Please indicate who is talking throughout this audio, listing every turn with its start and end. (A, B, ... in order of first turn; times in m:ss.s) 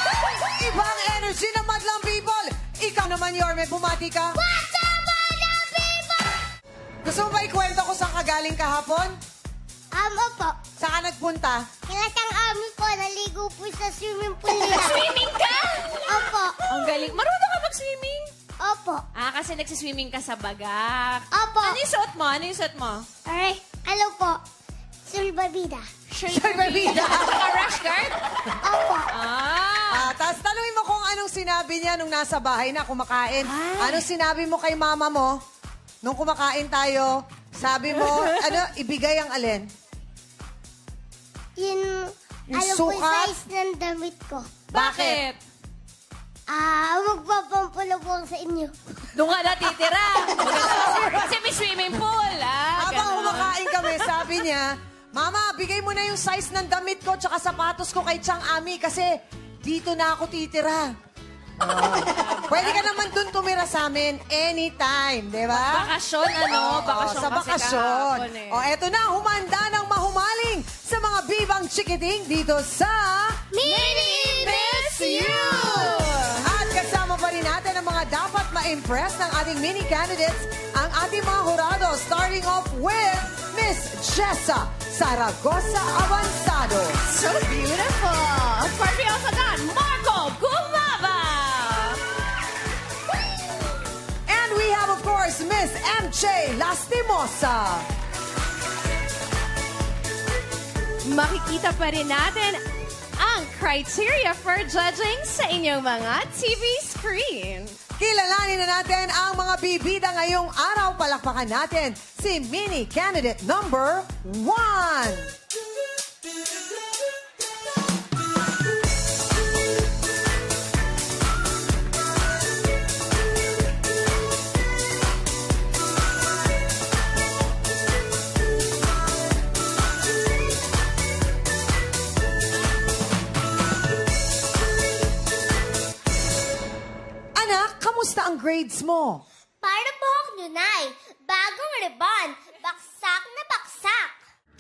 0:00.2-0:04.4 A
0:04.4-0:06.3 B
0:07.0-0:09.2 A
0:09.9-0:10.6 B
0:10.8-0:11.7 A
0:11.9-0:15.1 B
0:14.5-0:18.3 C
0:16.1-0:16.6 B
0:18.6-0:19.0 B
0:19.2-0:23.1 C
0:21.3-0:21.8 B
0:23.3-0:24.4 B
0:25.1-0:25.9 B
0:26.1-0:28.2 C
0:26.3-0:27.6 A
0:28.6-0:29.1 B
0:29.1-0:30.1 C
0:29.9-0:35.4 A
0:33.4-0:34.1 C
0:36.0-0:39.7 A
0:38.0-0:38.6 C
0:41.6-0:44.5 B
0:42.5-0:43.3 A
0:44.7-0:45.4 C
0:44.7-0:45.2 A
0:46.5-0:48.7 B
0:49.1-0:54.2 C
0:52.8-0:59.1 A
0:59.6-1:00.9 A
1:01.6-1:02.9 C
1:02.5-1:05.9 A
1:05.5-1:08.6 C
1:06.4-1:13.4 A
1:13.5-1:16.1 B
1:13.6-1:16.5 C
1:16.4-1:27.0 A
1:27.1-1:32.0 C
1:34.3-1:37.9 A
1:41.0-1:42.6 C
1:43.2-1:47.8 C
1:48.0-1:55.3 A
2:17.4-2:19.2 A
2:19.6-2:24.2 B